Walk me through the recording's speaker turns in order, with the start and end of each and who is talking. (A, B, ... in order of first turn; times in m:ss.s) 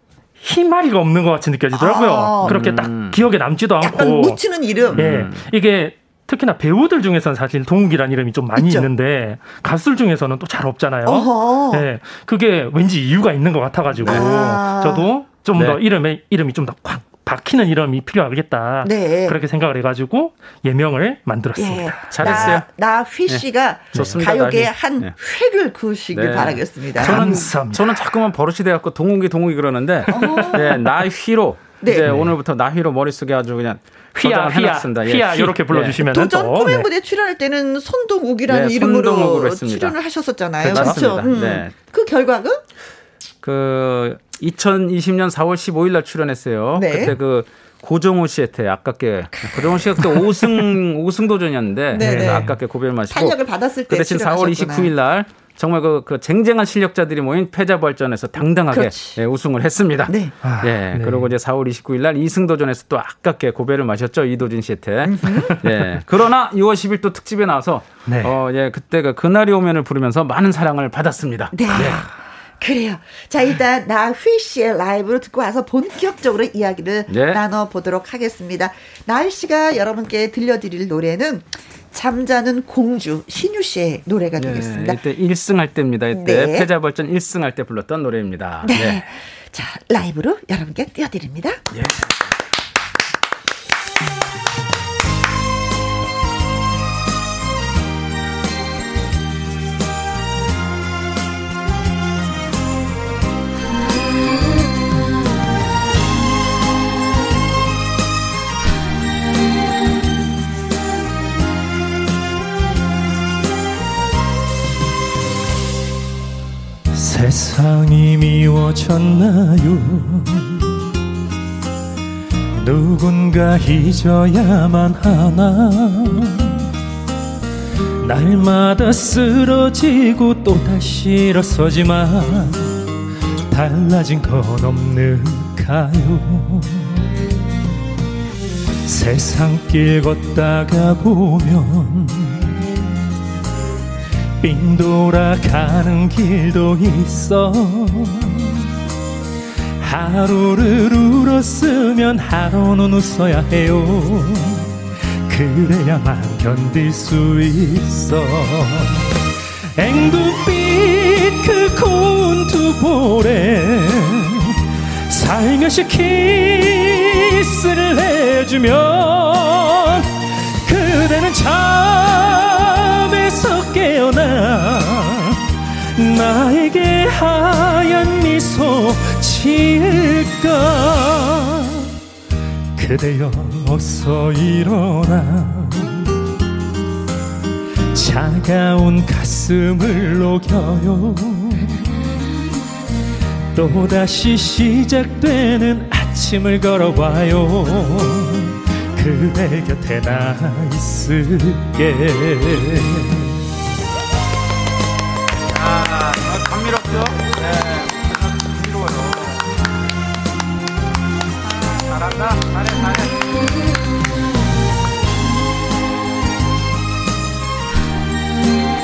0:00.4-0:04.4 A
0:01.7-0:02.8 B
0:02.4-0:03.2 C
0:03.8-0:05.1 B
0:04.9-0:05.4 C
0:05.0-0:22.5 A
0:08.5-0:08.9 B
0:11.0-0:11.9 B
0:14.0-0:15.1 B
0:14.0-0:14.3 C
0:15.6-0:15.8 C
0:18.8-0:19.4 B
0:21.6-0:27.4 B
0:22.1-0:22.7 C
0:23.9-0:25.1 C
0:26.1-0:36.0 C
0:27.0-0:27.9 A
0:30.1-0:30.8 B
0:31.8-0:32.1 B
0:34.2-0:36.9 A
0:36.0-0:42.6 B
0:38.5-0:40.0 C
0:40.6-0:41.0 A
0:40.6-0:41.7 C
0:43.4-1:12.0 C
0:46.8-0:47.2 B
0:50.0-0:50.5 B
0:51.9-0:52.6 B
0:52.0-0:52.5 A
0:53.1-0:54.9 B
0:58.7-0:59.2 B
1:00.1-1:00.3 B
1:00.4-1:01.2 A
1:05.0-1:05.6 B
1:08.1-1:08.3 A
1:11.5-1:25.0 B
1:17.1-1:17.4 C
1:24.4-1:29.0 C
1:26.1-1:26.7 B
1:28.6-1:31.6 B
1:31.7-1:32.1 C
1:56.9-2:00.7 A
2:02.6-2:06.6 A
2:08.0-2:12.8 A
2:13.5-2:17.0 A
2:18.9-2:22.6 A
2:24.4-2:28.7 A
2:29.8-2:34.8 A
2:35.3-2:39.1 A
2:39.8-2:50.1 A
2:50.6-2:55.4 A
2:56.0-3:01.9 A
3:02.8-3:06.1 A
3:07.9-3:11.9 A
3:13.5-3:23.3 A
3:25.5-3:29.4 C
3:31.4-3:33.4 C